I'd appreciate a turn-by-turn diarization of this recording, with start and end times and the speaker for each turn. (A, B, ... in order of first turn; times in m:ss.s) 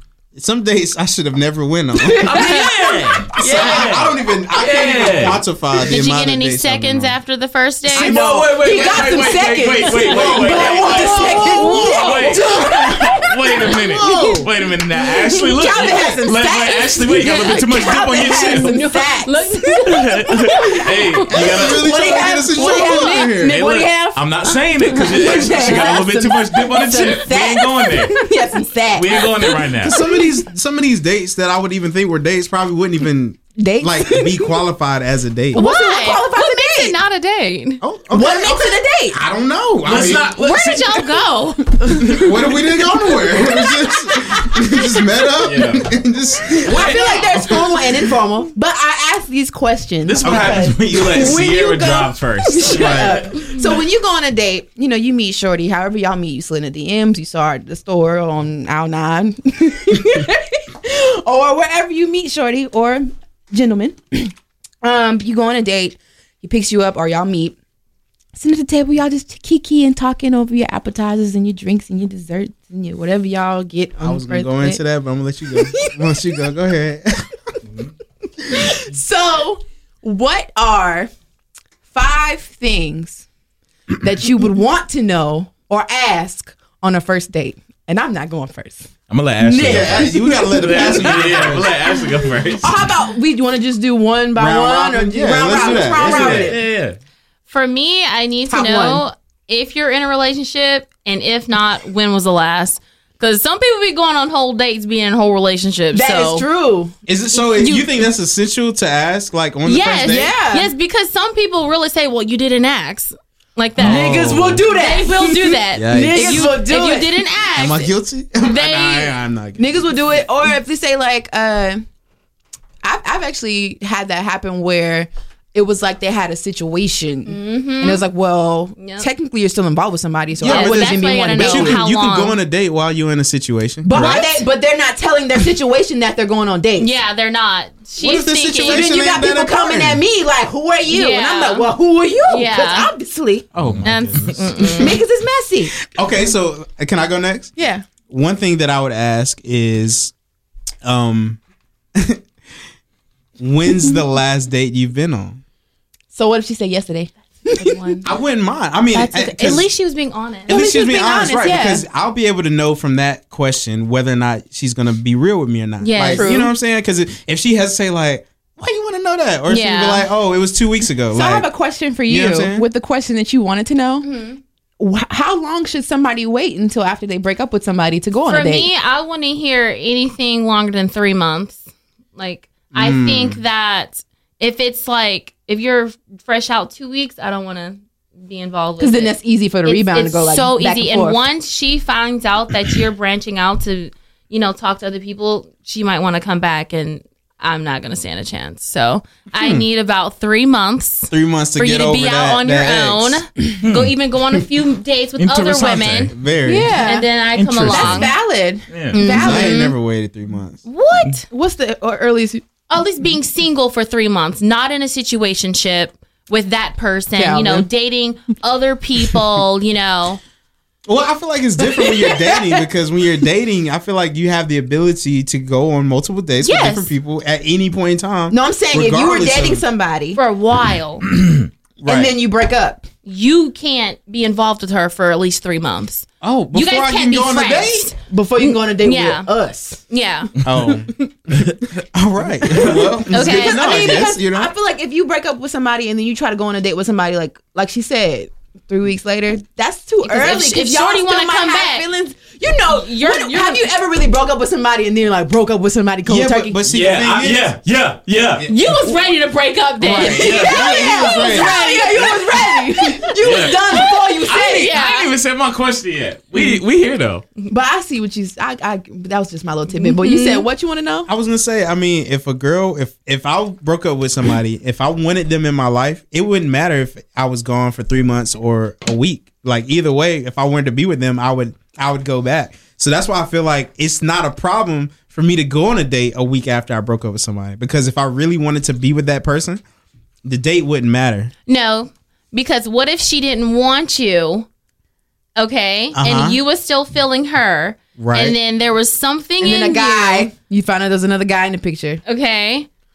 0:00.4-0:02.4 A
0:02.0-0:03.7 B
0:02.2-0:05.4 C
0:02.4-0:02.7 D
0:03.4-0:07.2 A
0:05.8-0:08.2 D
0:07.9-0:18.9 C
0:07.9-0:14.5 B
0:10.0-0:13.8 D
0:10.1-0:10.5 A
0:15.1-0:21.0 B
0:15.9-0:16.1 A
0:17.2-0:21.3 D
0:19.9-0:22.2 C
0:21.3-0:23.6 A
0:21.5-0:30.3 B
0:22.6-0:23.3 D
0:23.4-0:28.3 C
0:28.9-0:30.0 C
0:29.8-0:35.6 A
0:33.6-0:34.6 B
0:35.5-0:37.0 B
0:35.5-0:37.8 D
0:37.8-0:40.3 A
0:38.1-0:39.2 B
0:39.8-0:41.1 C
0:40.1-0:42.3 D
0:42.0-0:42.3 B
0:42.0-0:47.0 A
0:45.4-0:45.9 C
0:46.6-0:47.8 C
0:46.6-1:07.6 B
0:50.0-0:53.2 C
0:50.2-0:50.7 A
0:52.6-0:53.2 A
1:08.4-1:14.8 B
1:14.0-1:17.5 A
1:15.5-1:16.4 B
1:18.5-1:21.1 B
1:21.9-1:23.2 B
1:24.0-1:28.9 B
1:29.1-1:32.9 C
1:29.4-1:32.1 B
1:29.6-1:31.8 A
1:32.6-1:36.6 B
1:34.4-1:36.6 A
1:36.0-1:37.0 C
1:37.5-1:46.4 D
1:38.5-1:39.0 B
1:45.9-1:46.9 B
1:47.1-1:50.3 A
1:47.6-1:47.8 B
1:49.6-1:59.1 D
1:50.0-1:50.7 B
1:53.8-1:54.6 A
1:53.8-1:57.2 B
1:55.7-1:56.6 A
1:57.6-2:00.2 A
1:59.6-2:01.8 B
2:02.8-2:11.8 B
2:07.3-2:08.0 D
2:08.8-2:09.1 D
2:10.4-2:14.4 A
2:10.4-2:12.4 D
2:13.8-2:16.9 B
2:14.0-2:14.2 D
2:16.8-2:18.9 D
2:18.0-2:20.0 A
2:18.6-2:23.5 B
2:20.9-2:21.7 D
2:22.3-2:22.9 D
2:23.5-2:24.8 A
2:23.6-2:24.6 C
2:23.8-2:25.0 D
2:24.7-2:25.7 B
2:25.9-2:27.5 A
2:27.6-2:27.8 B
2:28.1-2:30.1 A
2:30.8-2:31.4 A
2:32.0-2:32.2 A
2:33.4-2:35.4 A
2:36.1-2:38.0 B
2:37.6-2:38.0 D
2:38.0-2:39.7 A
2:38.9-2:40.6 D
2:40.5-2:51.5 A
2:40.5-2:41.8 B
2:45.8-2:46.4 D
2:46.1-2:46.5 B
2:49.5-2:50.1 D
2:51.1-2:54.1 B
2:52.1-2:52.7 A
2:54.0-2:54.4 D
2:54.8-2:58.7 B
2:58.3-3:01.6 D
3:02.2-3:26.1 D
3:02.7-3:03.4 A
3:08.8-3:11.2 B
3:19.4-3:19.6 A
3:21.1-3:23.2 A
3:23.6-3:23.9 C
3:25.2-3:26.1 C
3:26.1-3:26.8 A
3:26.4-3:27.1 B
3:26.8-3:28.1 D
3:27.3-3:28.1 C
3:27.6-3:29.6 B
3:28.7-3:29.0 C
3:28.9-3:29.8 D
3:29.1-3:30.6 A
3:30.7-3:31.2 D
3:31.2-3:32.4 B
3:32.7-3:40.2 D
3:37.2-3:37.7 B
3:40.9-3:49.6 A
3:41.7-3:42.6 B
3:46.4-3:46.9 D
3:48.3-3:50.2 B
3:50.2-3:51.1 D
3:51.8-3:52.1 A
3:51.8-3:52.9 B
3:53.0-3:59.3 D
3:56.2-3:57.9 A
3:58.1-3:59.8 B
3:59.9-4:00.3 D
4:00.4-4:04.5 A
4:03.1-4:16.6 B
4:03.1-4:03.9 D
4:10.0-4:11.8 D
4:12.7-4:13.7 D
4:16.0-4:17.5 A
4:16.7-4:18.5 C
4:18.5-4:23.0 D
4:19.8-4:22.0 A
4:19.9-4:20.7 C
4:19.9-4:24.7 B
4:23.2-4:27.2 C
4:23.7-4:25.1 D
4:27.5-4:31.1 B
4:29.7-4:30.4 D
4:31.1-4:49.6 A
4:50.2-4:51.3 A
4:51.5-4:54.5 D
4:55.4-5:00.3 D
4:55.9-4:56.4 A
4:58.0-4:58.4 A
4:59.4-5:02.0 B
5:02.0-5:02.7 D